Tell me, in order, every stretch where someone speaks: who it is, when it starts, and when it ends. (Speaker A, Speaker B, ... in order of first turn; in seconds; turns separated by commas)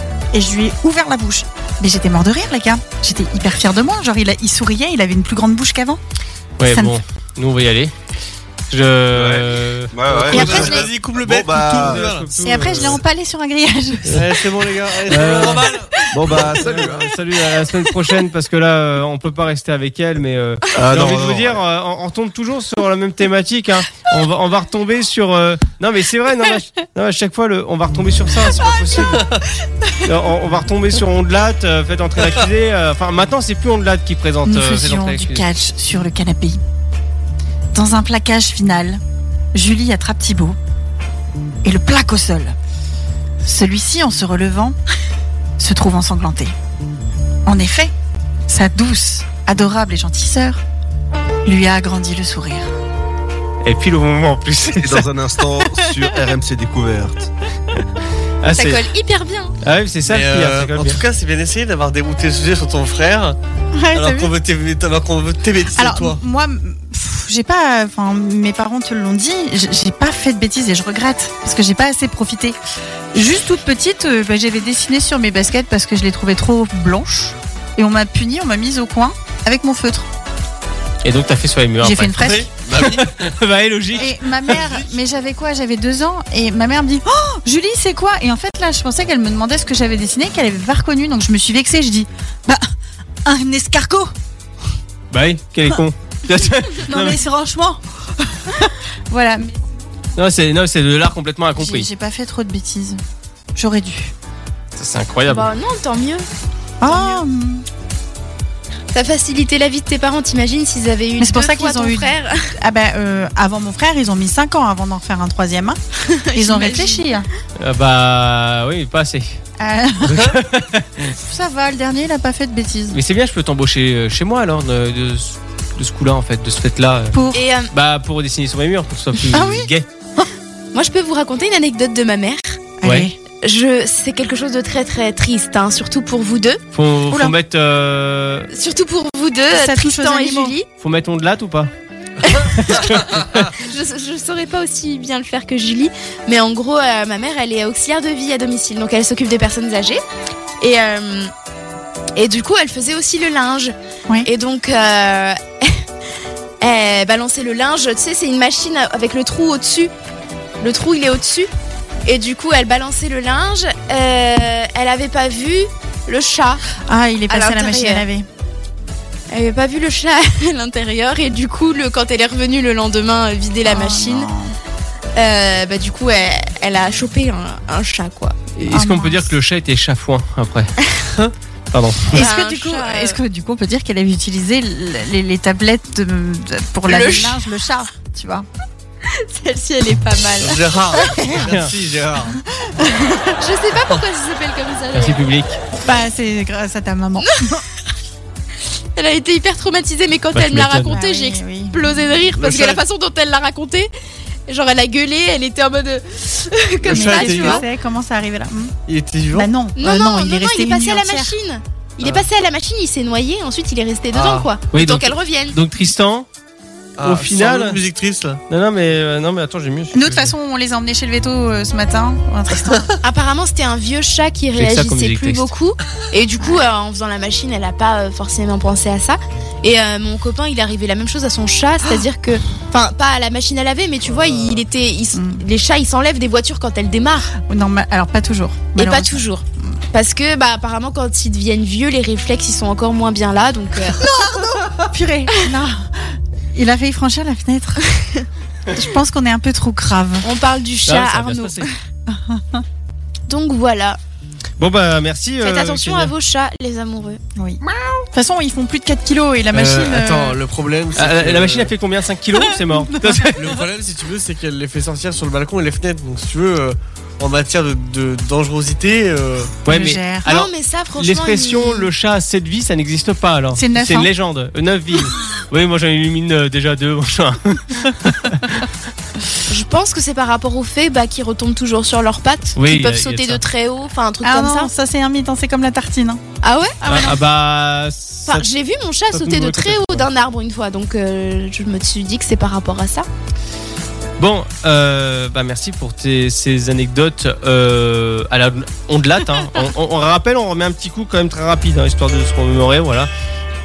Speaker A: 0.3-6.0, Speaker B: 6.6-7.9, Speaker A: 6.7-7.0, Speaker B: 8.7-10.5, Speaker C: 9.1-12.0, Speaker D: 10.1-13.0, Speaker A: 10.3-10.9, Speaker B: 11.6-13.0, Speaker A: 12.4-14.5, Speaker D: 14.1-15.9, Speaker B: 15.1-15.8, Speaker C: 16.1-17.1, Speaker B: 16.5-29.2, Speaker C: 20.7-21.6, Speaker B: 30.0-35.5, Speaker A: 34.4-36.6, Speaker A: 37.7-39.0, Speaker A: 39.5-40.6, Speaker A: 41.6-42.5, Speaker A: 43.4-44.8, Speaker A: 45.6-46.5, Speaker A: 47.5-47.9, Speaker A: 48.5-50.6, Speaker A: 51.4-52.7, Speaker B: 53.6-55.1, Speaker C: 54.8-57.3, Speaker B: 58.4-58.8, Speaker E: 58.5-59.5, Speaker B: 59.6-61.0, Speaker D: 60.1-63.4, Speaker A: 63.7-64.3, Speaker D: 63.9-66.2, Speaker A: 65.7-72.5, Speaker A: 73.1-80.1, Speaker B: 81.0-84.1, Speaker A: 81.8-82.5, Speaker D: 82.2-83.3, Speaker A: 84.0-92.7, Speaker D: 84.5-84.8, Speaker A: 93.2-94.1, Speaker B: 95.1-97.2, Speaker A: 96.9-99.6, Speaker B: 100.2-101.9, Speaker A: 101.6-103.0, Speaker A: 103.5-104.1, Speaker B: 104.8-105.5, Speaker E: 105.3-106.3, Speaker A: 106.8-107.6, Speaker E: 106.8-107.2, Speaker E: 108.9-112.5, Speaker A: 111.2-115.8, Speaker E: 116.0-117.1, Speaker A: 116.3-117.2, Speaker B: 117.6-119.4, Speaker A: 119.6-120.3, Speaker B: 120.0-120.9, Speaker A: 121.1-123.0, Speaker B: 122.9-127.2, Speaker A: 127.1-127.4, Speaker E: 127.3-127.7, Speaker B: 127.7-129.8, Speaker A: 129.3-130.2, Speaker E: 130.7-132.7, Speaker A: 132.8-133.1, Speaker B: 132.8-133.1, Speaker E: 133.3-136.6, Speaker B: 136.7-138.5, Speaker E: 138.5-140.6, Speaker A: 139.5-140.5, Speaker B: 140.8-141.7, Speaker E: 142.2-150.0, Speaker B: 142.4-143.5, Speaker E: 150.6-151.3, Speaker E: 152.2-155.8, Speaker E: 156.6-159.9, Speaker E: 160.6-161.5, Speaker E: 162.0-166.7, Speaker A: 166.8-168.2, Speaker E: 167.3-168.0, Speaker E: 169.3-174.3, Speaker A: 173.6-174.5, Speaker E: 175.2-178.4, Speaker B: 178.6-180.7, Speaker A: 178.7-179.2, Speaker B: 181.7-182.2, Speaker A: 182.1-188.5, Speaker E: 182.1-183.2, Speaker E: 186.9-187.4, Speaker E: 189.0-190.6, Speaker D: 190.4-192.4, Speaker A: 191.1-191.3, Speaker B: 191.3-191.7, Speaker A: 192.8-193.1, Speaker E: 193.4-195.2, Speaker B: 194.9-195.6, Speaker A: 195.8-197.6, Speaker E: 198.9-203.9, Speaker B: 200.3-201.0, Speaker A: 200.9-201.9, Speaker D: 202.3-202.8, Speaker E: 204.5-207.6, Speaker D: 206.8-207.7, Speaker A: 206.9-208.7, Speaker D: 208.9-209.5, Speaker A: 209.3-211.3, Speaker E: 209.8-215.6, Speaker D: 214.1-214.5, Speaker B: 214.7-216.3, Speaker D: 217.0-218.4, Speaker B: 217.0-217.8, Speaker B: 218.5-220.3, Speaker A: 219.9-222.9, Speaker E: 223.0-237.3, Speaker B: 224.6-225.5, Speaker D: 234.1-234.6, Speaker A: 235.1-235.4, Speaker A: 237.4-239.2, Speaker E: 238.7-244.0, Speaker A: 243.9-245.9, Speaker A: 246.5-247.8, Speaker A: 248.7-250.2, Speaker E: 250.2-251.7, Speaker B: 250.8-251.7, Speaker A: 252.1-252.6, Speaker E: 253.3-254.0, Speaker B: 254.6-256.1, Speaker E: 255.4-257.2, Speaker A: 258.1-260.4, Speaker D: 259.5-261.7, Speaker B: 260.9-263.5, Speaker A: 262.4-263.2, Speaker D: 263.4-269.6, Speaker B: 269.6-278.6, Speaker A: 269.7-270.2, Speaker E: 270.2-271.9, Speaker A: 273.5-274.1, Speaker E: 279.5-284.7, Speaker B: 282.6-283.4, Speaker A: 284.2-286.2, Speaker E: 286.4-287.1, Speaker A: 286.8-287.1, Speaker B: 286.8-288.5, Speaker E: 288.3-293.1, Speaker B: 289.1-290.1, Speaker B: 294.2-303.1